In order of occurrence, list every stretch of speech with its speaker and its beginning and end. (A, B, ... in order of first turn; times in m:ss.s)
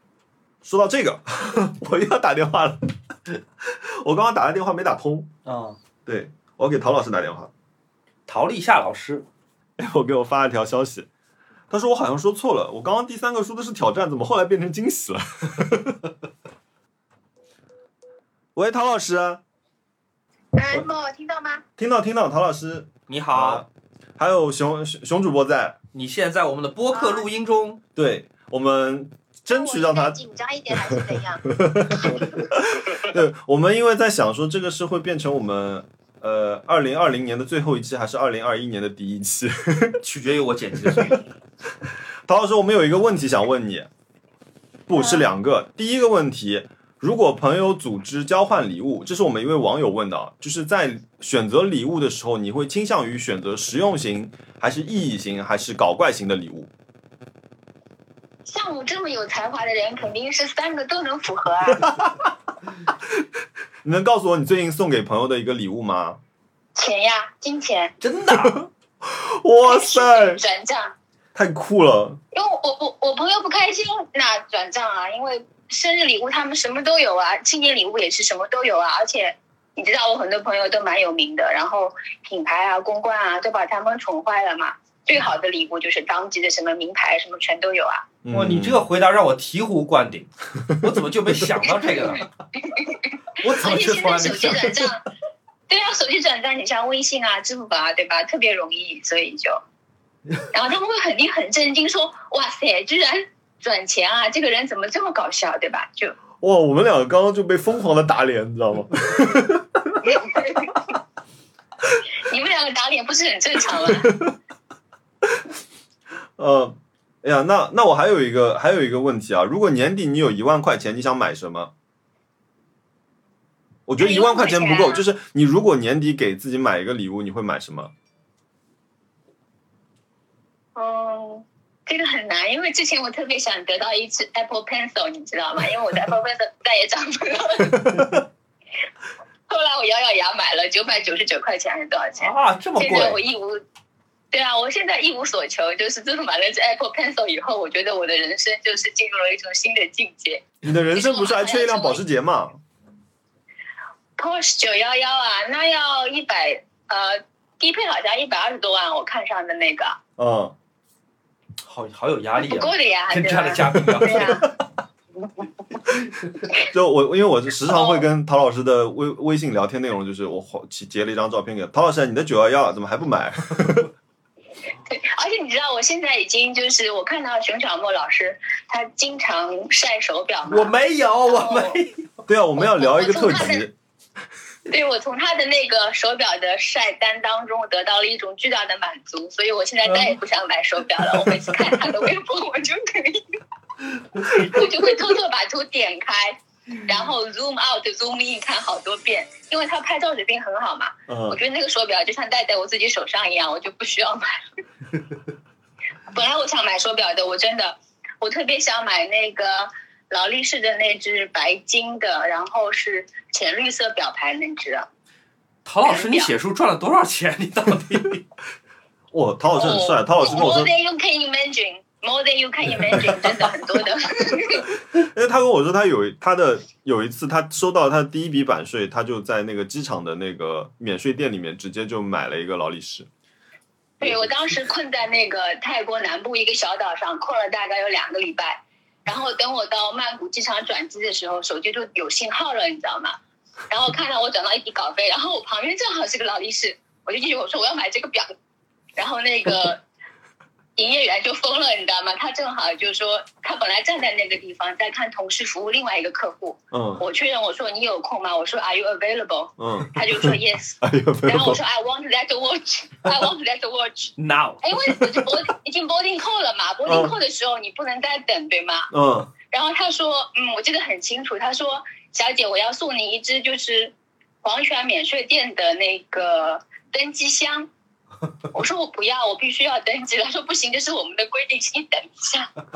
0:00.6-0:05.3 A
0:05.4-0:05.8 B
0:06.1-0:07.5 A
0:08.3-0:09.3 B
0:09.8-0:11.1 A
0:11.7-0:16.0 A
0:18.6-0:19.4 A
0:20.6-0:21.6 C
0:21.8-0:25.8 A
0:23.1-0:23.6 B
0:25.9-0:27.8 B
0:26.9-0:27.3 C
0:28.0-0:40.0 A
0:29.5-0:31.4 C
0:40.0-0:41.3 B
0:40.8-0:41.2 A
0:41.9-0:43.9 A
0:44.9-0:56.7 A
0:58.5-1:02.0 C
1:01.8-1:02.3 A
1:03.8-1:06.2 A
1:06.8-1:07.9 C
1:08.0-1:08.6 B
1:08.3-1:10.4 A
1:09.6-1:10.9 C
1:11.4-1:12.2 A
1:12.3-1:28.1 C
1:28.2-1:28.8 A
1:28.3-1:32.3 B
1:31.8-1:35.0 C
1:33.4-1:34.8 B
1:35.7-1:39.6 C
1:40.5-1:46.2 C
1:46.4-1:50.1 A
1:50.0-1:50.8 C
1:52.2-1:54.1 C
1:53.8-1:54.4 A
1:56.4-2:01.7 A
2:03.9-2:07.9 A
2:04.0-2:05.0 C
2:10.8-2:18.0 C
2:17.8-2:18.2 A
2:19.5-2:23.6 C
2:22.2-2:23.2 B
2:24.3-2:32.0 C
2:30.6-2:32.6 A
2:34.2-2:40.0 C
2:40.2-2:40.6 A
2:41.6-2:44.5 B
2:42.4-2:44.5 C
2:44.0-2:44.3 A
2:46.6-2:53.9 A
2:47.7-2:48.0 C
2:54.8-3:00.7 C
3:00.5-3:02.0 B
3:01.3-3:01.8 C
3:02.3-3:03.7 A
3:02.6-3:03.7 C
3:04.7-3:13.2 C
3:09.8-3:10.2 B
3:14.0-3:14.4 B
3:14.2-3:24.3 C
3:21.1-3:21.4 A
3:26.1-3:34.9 C
3:35.6-3:38.2 B
3:35.8-3:36.3 C
3:39.1-3:40.7 A
3:39.6-3:44.7 C
3:44.9-3:53.1 A
3:54.0-4:03.2 C
3:54.0-3:54.3 A
4:03.7-4:08.3 C
4:09.0-4:09.8 C
4:10.8-4:28.9 C
4:16.7-4:17.0 A
4:19.6-4:21.6 A
4:24.2-4:24.6 B
4:26.9-4:27.2 A
4:28.9-4:29.3 A
4:29.4-4:37.7 C
4:38.5-4:42.5 C